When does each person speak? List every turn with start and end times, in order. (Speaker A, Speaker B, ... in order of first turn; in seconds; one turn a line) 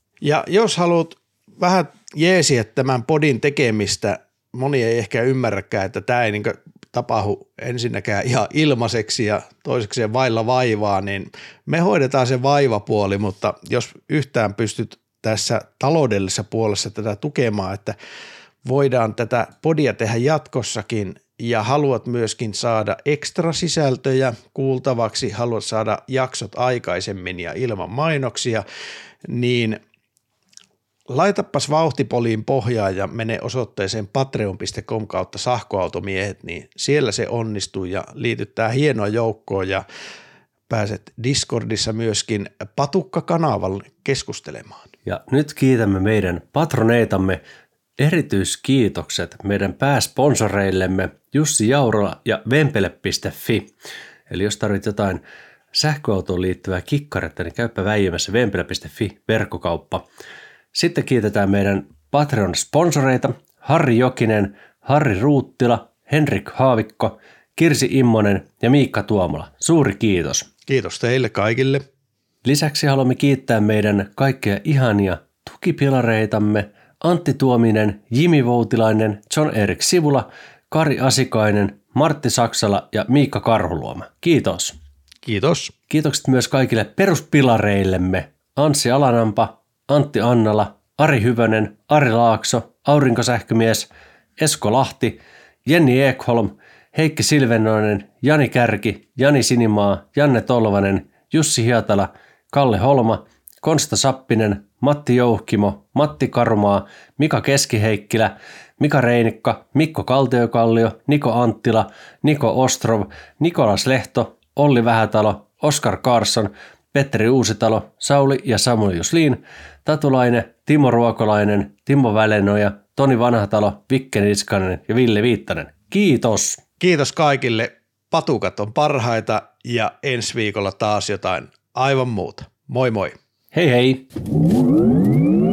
Speaker A: 0.2-17.9
Speaker A: 18.6-28.6
Speaker A: 29.2-29.8
Speaker A: 31.1-39.8
Speaker A: 40.7-44.9
Speaker B: 45.0-47.4
Speaker B: 48.0-53.7
Speaker B: 54.3-55.2
Speaker B: 55.7-60.0
Speaker B: 60.7-70.5
Speaker A: 70.7-71.8
Speaker B: 72.4-84.8
Speaker A: 85.2-85.7
Speaker B: 85.9-126.6
Speaker A: 126.8-133.2
Speaker B: 133.5-134.0